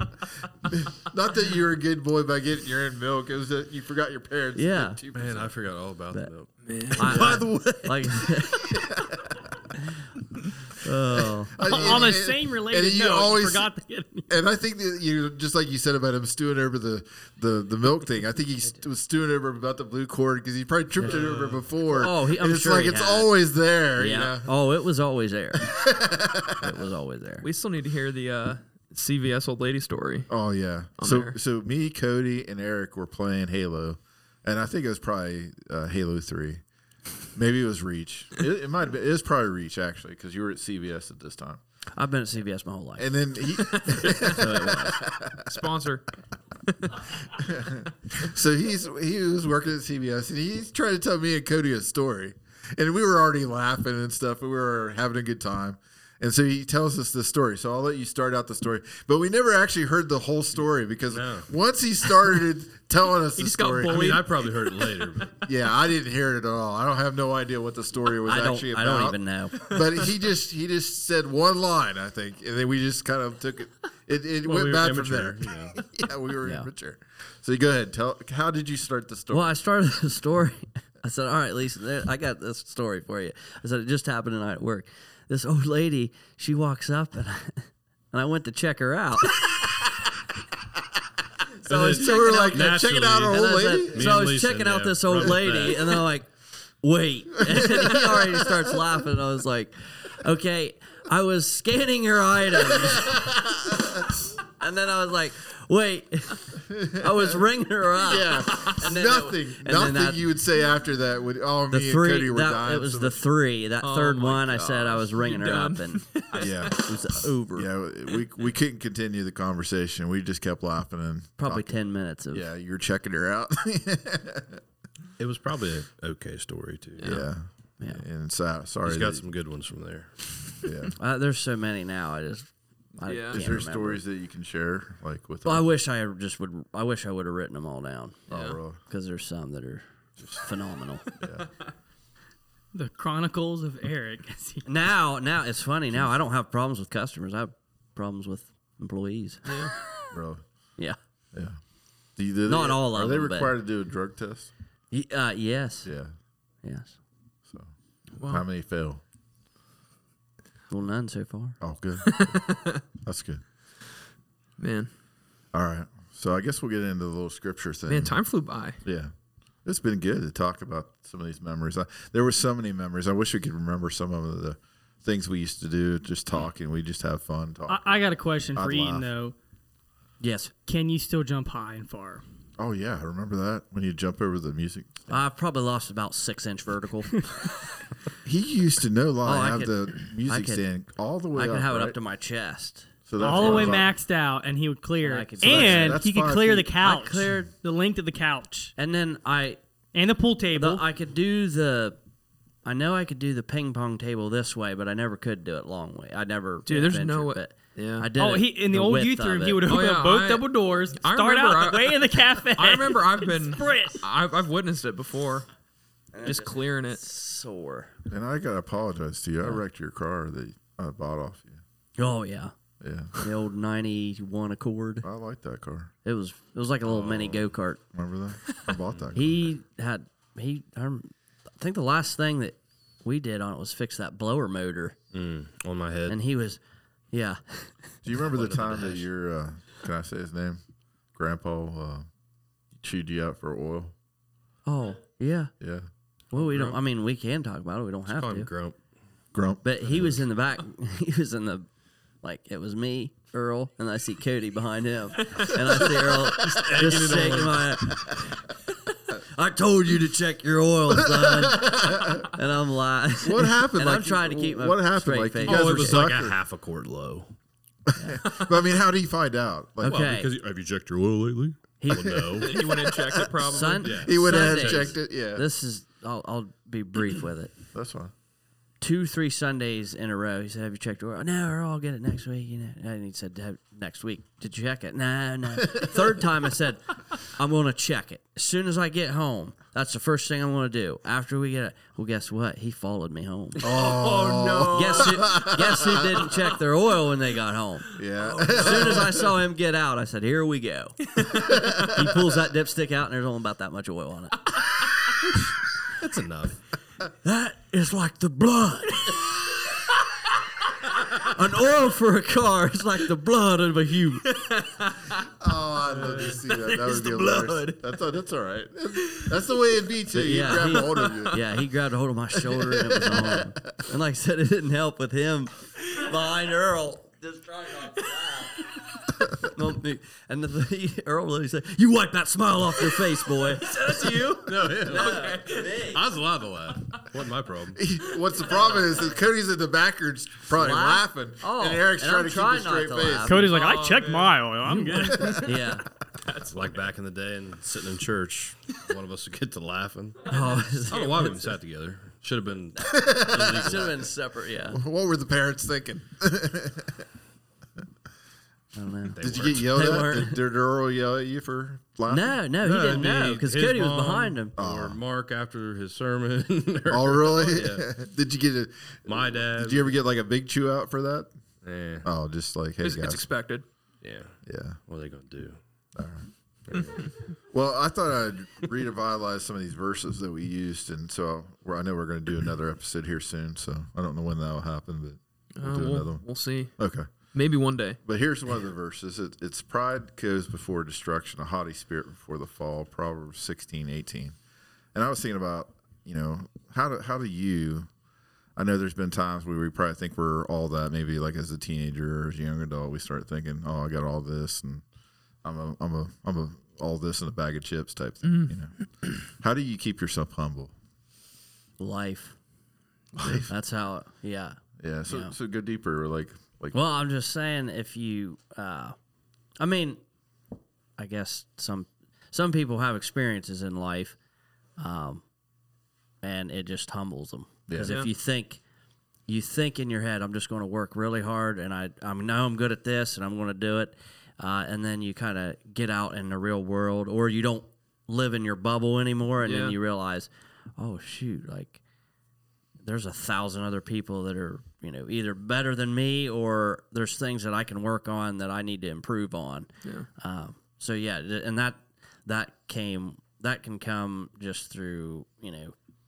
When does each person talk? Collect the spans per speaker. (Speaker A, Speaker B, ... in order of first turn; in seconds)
Speaker A: 0.7-5.5, 7.0-9.6, 11.5-13.7, 14.3-24.5, 25.6-26.8, 30.3-36.6, 37.4-41.6, 43.0-45.6, 47.3-64.2, 65.5-79.5, 91.8-94.2, 97.5-98.7, 102.8-104.0, 106.7-107.4, 108.0-113.2, 116.4-116.8, 117.5-121.7, 122.3-124.6, 127.0-129.2, 130.6-130.9, 133.3-135.7, 138.3-138.8, 141.2-141.5, 150.1-150.4, 152.2-154.5, 155.8-156.1, 158.2-159.0, 161.6-162.4, 163.0-163.4, 165.5-168.2, 168.8-169.1, 169.7-178.0, 178.6-179.1, 182.6-185.2, 188.2-192.0, 193.1-193.9, 195.4-196.7, 218.1-221.6, 222.8-223.2, 225.0-225.9, 227.1-227.4, 227.9-229.5, 238.1-240.6, 241.2-242.1, 242.8-243.9, 245.6-245.9, 249.3-250.2, 261.0-262.3, 263.2-266.4, 267.9-270.0, 271.9-273.4, 274.0-275.5, 277.7-278.1, 293.6-296.3, 297.9-299.4, 301.4-302.2, 315.4-321.4, 322.4-323.8, 337.8-343.5, 344.9-345.7, 352.8-353.8, 354.7-357.0, 359.2-362.4, 364.6-365.0, 366.9-371.3, 372.0-373.2, 374.5-374.8, 376.0-376.8, 377.5-386.2, 386.8-387.1, 388.1-394.4, 394.9-397.9, 398.6-404.8, 405.4-408.7, 409.4-410.7, 413.2-413.5, 414.8-416.8, 427.7-428.0
Speaker B: 4.5-5.0, 7.0-8.8, 10.8-12.0, 21.9-23.3, 24.0-25.7, 26.5-27.4, 42.0-43.1, 43.6-45.0, 68.2-69.7, 79.3-89.5, 91.7-96.3, 96.8-103.3, 104.0-110.2, 111.7-117.7, 121.4-122.4, 131.0-134.0, 135.4-141.1, 144.7-149.4, 152.5-153.5, 154.9-155.9, 156.6-156.9, 160.7-161.6, 180.2-180.5, 185.1-187.5, 189.2-190.6, 191.3-193.8, 195.0-196.0, 196.8-197.5, 198.8-199.6, 200.6-202.0, 202.7-209.7, 216.1-217.9, 222.0-222.5, 223.2-225.1, 226.0-227.8, 229.2-235.0, 236.1-236.6, 237.1-238.0, 244.7-245.5, 246.3-248.5, 249.6-251.7, 252.2-258.4, 259.1-266.0, 269.8-270.3, 271.8-272.9, 273.5-277.6, 278.8-293.6, 294.7-304.6, 307.2-309.7, 311.0-314.3, 320.1-328.7, 329.4-336.0, 338.5-339.2, 340.5-343.6, 345.4-345.9, 350.3-351.3, 353.6-354.8, 358.8-360.4, 362.1-364.6, 411.8-412.4, 413.2-415.3, 416.7-418.9, 419.6-420.0, 421.0-424.2, 424.8-425.2, 426.2-428.6, 429.3-441.8, 442.8-455.7
Speaker C: 5.1-7.5, 21.0-21.6, 61.1-61.5, 63.9-65.4, 74.4-75.8, 91.7-96.0, 125.2-127.2, 128.8-130.6, 227.0-227.3, 235.1-236.2, 238.4-239.0, 246.3-246.8, 248.1-248.8, 256.4-257.8, 265.4-267.3, 269.8-272.5, 273.8-275.0, 298.7-298.9, 306.0-306.6, 315.9-316.3, 334.4-337.8, 346.4-354.1, 359.1-359.7, 362.6-367.9, 369.1-369.9, 371.6-372.1, 374.0-375.6, 376.7-377.1
Speaker D: 6.7-7.4, 27.4-30.3, 31.0-31.4, 43.9-44.2, 45.4-46.1, 46.7-47.2, 63.4-65.0, 113.8-116.8, 127.0-127.2, 133.1-133.6, 138.3-138.6, 149.5-149.7, 158.2-158.4, 162.1-162.8, 164.6-164.9, 167.9-168.8, 206.7-208.1, 209.7-215.5, 216.2-217.0, 272.4-274.1, 293.6-295.4, 314.3-315.3, 316.4-317.8, 319.1-319.3, 320.5-321.4, 333.7-335.9, 343.4-344.4, 346.2-346.7, 350.9-351.3, 372.8-373.6, 385.6-386.8, 387.3-388.0, 408.2-408.5, 427.8-428.1, 439.4-439.8
Speaker E: 11.6-14.3, 142.7-144.7, 177.7-179.3, 180.7-182.2, 193.2-198.8, 199.9-200.9, 208.2-214.0, 343.2-345.5